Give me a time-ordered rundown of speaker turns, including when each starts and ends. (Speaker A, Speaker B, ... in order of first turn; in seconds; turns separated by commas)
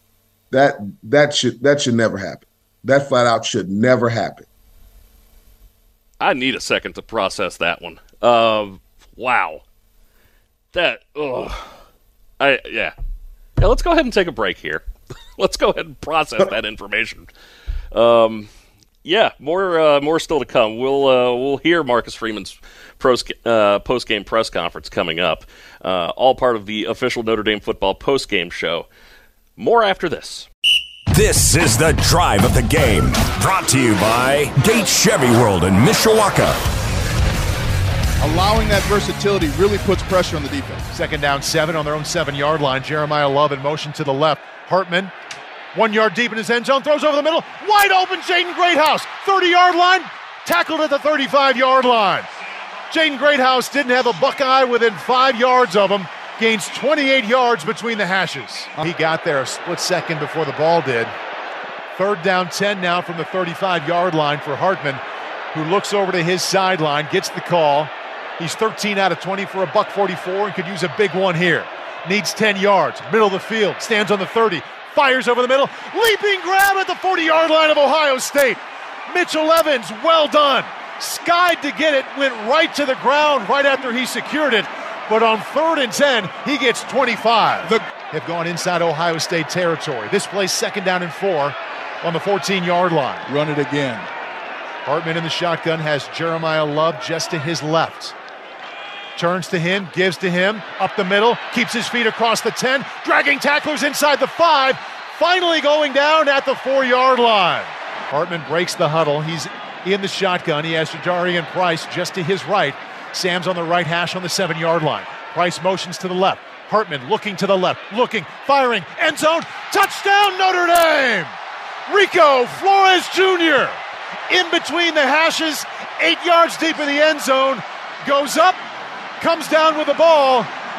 Speaker A: 0.5-4.5, Speaker B: 6.2-9.6, Speaker B: 10.7-11.8, Speaker B: 12.4-12.9, Speaker B: 13.6-14.8, Speaker B: 15.4-17.3, Speaker B: 17.9-18.5, Speaker B: 19.0-28.9, Speaker B: 29.6-30.5, Speaker C: 31.1-36.6, Speaker D: 38.2-40.9, Speaker E: 40.9-45.1, Speaker E: 45.7-52.3, Speaker E: 52.9-61.1, Speaker E: 61.9-65.0, Speaker E: 65.5-93.2, Speaker D: 93.2-94.1, Speaker E: 94.8-98.1, Speaker E: 99.2-121.3, Speaker E: 121.9-123.8, Speaker E: 124.3-128.6, Speaker E: 129.2-130.5